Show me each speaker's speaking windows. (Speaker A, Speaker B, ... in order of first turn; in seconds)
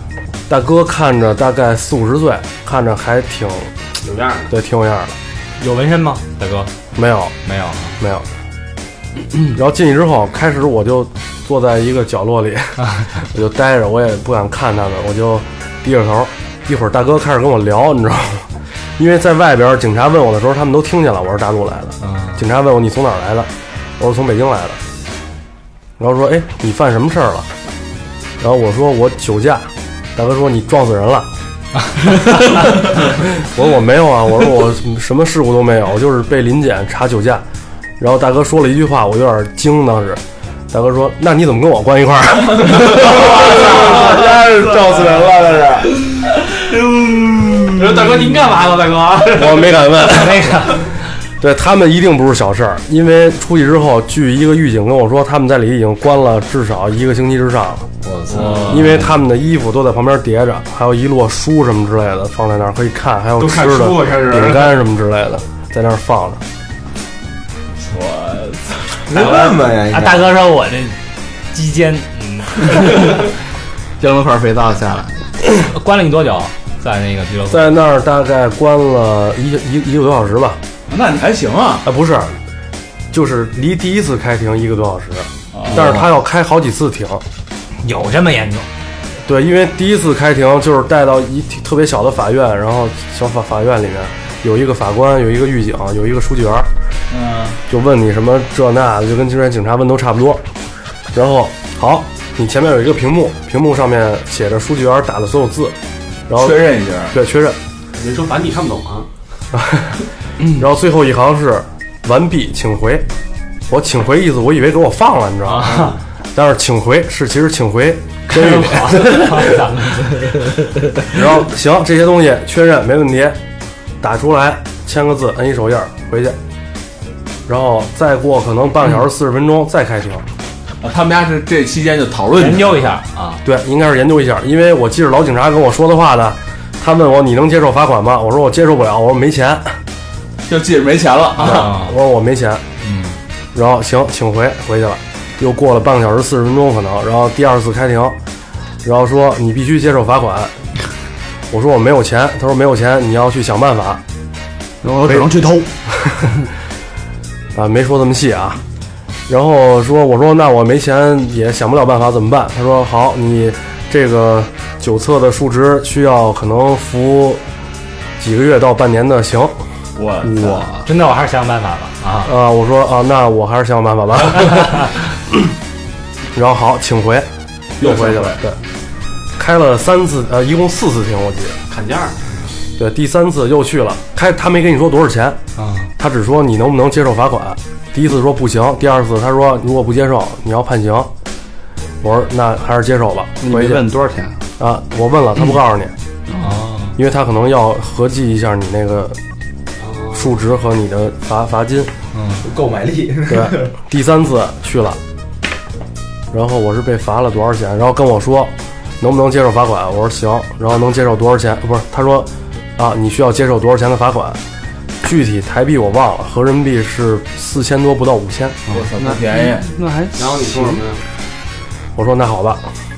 Speaker A: 0.5-3.7, 4.5-5.2, 7.0-7.4, 8.0-8.3, 9.5-24.8, 26.0-27.5, 28.4-31.3, 32.8-37.4, 38.0-43.3, 49.3-50.9, 51.4-57.9, 58.7-66.4, 77.5-80.6, 81.8-82.3, 83.1-87.2, 89.2-96.7, 97.7-100.4, 101.1-105.8, 106.3-106.6, 107.1-107.6, 109.5-110.0, 110.5-113.1, 113.7-119.5, 121.1-123.4, 124.0-126.4, 127.5-130.3, 133.4-139.8, 141.4-142.6, 143.5-148.2, 148.8-150.5, 151.5-154.0, 157.6-158.6, 159.3-167.4, 168.2-169.6, 170.2-170.6, 172.2-175.5, 176.3-177.3, 177.8-178.6, 179.4-181.6, 182.8-185.4, 186.0-191.1, 192.0-193.8, 194.6-195.9, 197.0-199.2, 200.1-201.9, 203.3-205.0, 206.3-214.4, 215.0-218.6, 222.0-222.7
Speaker B: 4.0-4.5, 47.8-49.9, 63.4-64.8, 108.0-109.1, 115.6-116.0, 181.7-182.4, 199.8-200.2, 220.2-221.0
Speaker C: 5.6-6.7, 7.5-8.0, 22.0-22.4, 50.1-50.9, 69.2-71.0, 71.5-73.0, 75.6-77.7, 87.8-88.7, 115.5-115.9, 118.3-120.5, 132.4-133.4, 141.4-141.9, 142.8-143.2, 170.8-172.3, 185.6-185.9, 196.4-197.0, 202.1-202.4
Speaker D: 42.9-46.0, 58.1-58.6, 69.1-70.3, 202.4-203.7
Speaker E: 43.1-44.0, 58.3-58.9, 67.8-69.5, 80.9-81.9, 85.5-86.0, 97.1-97.6, 106.3-107.2, 130.8-133.0, 140.5-141.8, 170.0-170.8, 177.8-178.4, 218.7-219.7
Speaker F: 74.0-75.2, 154.8-155.7, 156.2-156.5, 193.4-194.4, 196.3-196.6, 218.7-220.8